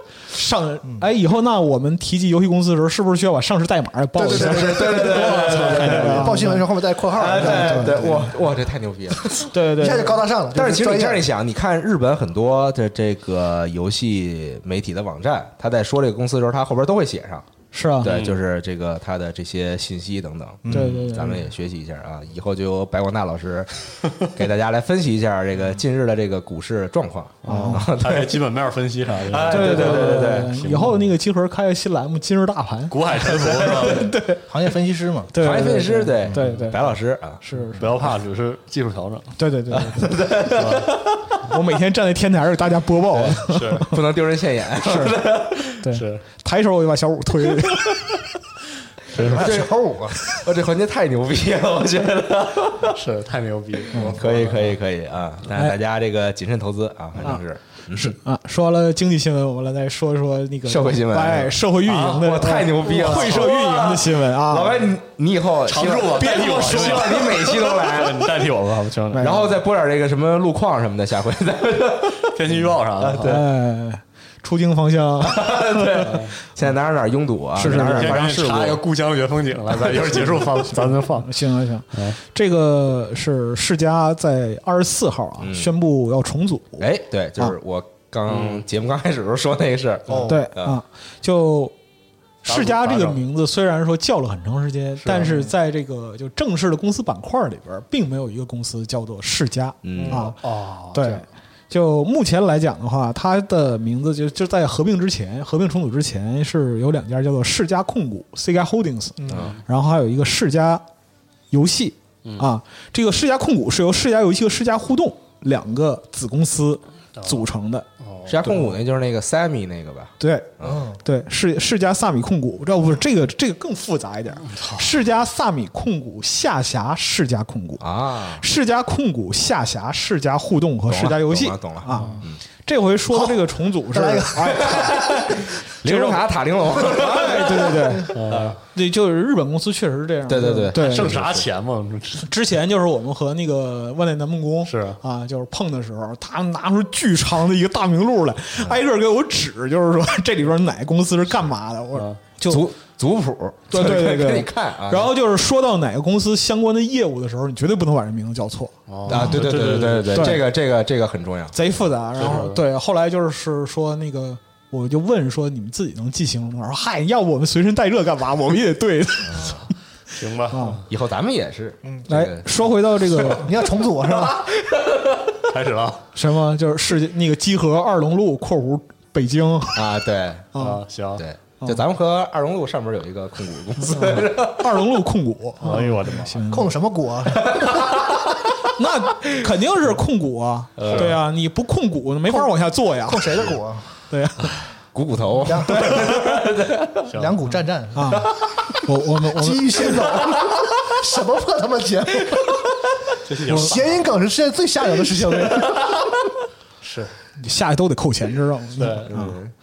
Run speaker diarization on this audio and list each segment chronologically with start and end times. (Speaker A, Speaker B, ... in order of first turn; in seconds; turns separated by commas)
Speaker A: 0.3-6.7, Speaker B: 4.2-8.4, Speaker C: 4.3-6.3, Speaker D: 5.5-6.1, Speaker C: 7.1-9.5, Speaker A: 7.2-8.3, Speaker B: 9.3-11.3, Speaker A: 9.5-10.2, Speaker C: 10.5-17.5, Speaker A: 17.7-18.1, Speaker C: 18.0-28.4, Speaker D: 18.0-18.4, Speaker B: 20.6-21.0, Speaker A: 20.7-21.5, Speaker D: 27.4-31.1, Speaker A: 27.5-27.9, Speaker C: 29.2-30.5, Speaker A: 29.5-34.5, Speaker D: 32.9-34.2, Speaker B: 34.5-35.4, Speaker A: 35.3-37.9, Speaker C: 35.4-37.4, Speaker D: 37.8-39.3, Speaker A: 39.4-40.1, Speaker C: 39.7-41.2, Speaker D: 40.4-40.9, Speaker A: 41.5-43.9, Speaker D: 43.3-43.9, Speaker C: 43.9-45.8, Speaker A: 44.8-48.1, Speaker D: 45.9-46.2, Speaker D: 49.1-49.5, Speaker B: 49.2-50.2, Speaker C: 49.2-53.0, Speaker D: 52.9-54.8, Speaker C: 54.0-58.2, Speaker A: 55.5-55.8, Speaker A: 57.9-64.9, Speaker C: 60.7-68.5, Speaker D: 62.9-63.5, Speaker D: 65.7-69.4, Speaker A: 69.1-69.5, Speaker C: 69.2-73.5, Speaker D: 72.3-73.5, Speaker A: 73.2-76.1, Speaker C: 75.2-78.8, Speaker D: 76.0-76.3, Speaker A: 77.6-78.3, Speaker D: 77.6-81.3, Speaker A: 81.1-86.9, Speaker D: 81.9-82.2, Speaker C: 85.4-85.7, Speaker C: 86.8-90.8, Speaker D: 88.3-88.6, Speaker B: 90.1-90.4, Speaker A: 90.3-91.7, Speaker D: 92.5-93.2, Speaker A: 92.5-100.4, Speaker D: 95.0-95.5, Speaker C: 99.8-100.3, Speaker B: 99.9-100.2, Speaker D: 100.4-101.2, Speaker A: 100.9-110.8, Speaker B: 109.2-109.6, Speaker D: 109.3-109.6, Speaker A: 111.5-117.9, Speaker D: 112.2-112.5, Speaker D: 117.2-117.5, Speaker D: 118.0-118.6, Speaker C: 118.3-120.8, Speaker A: 118.5-118.7, Speaker A: 120.2-135.1, Speaker B: 120.6-121.0, Speaker D: 124.5-124.9, Speaker C: 127.8-128.4, Speaker C: 130.9-132.4, Speaker D: 131.9-132.2, Speaker B: 133.1-133.4, Speaker B: 133.9-135.0, Speaker C: 134.7-138.5, Speaker A: 135.8-138.2, Speaker D: 138.1-138.6, Speaker A: 138.7-141.2, Speaker C: 140.3-141.5, Speaker D: 140.7-142.3, Speaker A: 142.2-152.7, Speaker D: 144.7-145.0, Speaker C: 152.5-155.1, Speaker A: 153.7-160.4, Speaker D: 158.9-160.4, Speaker C: 159.1-161.6, Speaker A: 161.5-169.7, Speaker D: 162.2-162.6, Speaker C: 169.3-169.6, Speaker D: 170.2-170.8, Speaker A: 170.5-170.8, Speaker C: 170.9-172.5, Speaker A: 172.1-173.5, Speaker B: 173.1-174.5, Speaker C: 174.0-175.4, Speaker D: 175.5-176.0, Speaker A: 176.2-179.8, Speaker C: 179.8-180.5, Speaker A: 180.5-180.8, Speaker D: 180.6-181.2, Speaker C: 181.2-184.8, Speaker A: 183.9-186.7, Speaker D: 185.6-186.4, Speaker B: 186.5-188.0, Speaker C: 187.5-188.3, Speaker A: 188.8-193.5, Speaker C: 190.8-191.2, Speaker D: 190.8-191.2, Speaker B: 193.1-193.9, Speaker A: 194.1-194.6, Speaker C: 194.9-197.1, Speaker B: 195.4-196.3, Speaker D: 197.1-197.4, Speaker B: 197.1-198.3, Speaker A: 197.9-198.3, Speaker A: 198.8-199.9, Speaker B: 199.3-202.7, Speaker D: 203.3-204.0, Speaker B: 203.4-205.8, Speaker A: 203.5-203.7, Speaker D: 206.8-207.1, Speaker A: 207.4-209.4, Speaker D: 208.8-209.4, Speaker C: 209.1-209.5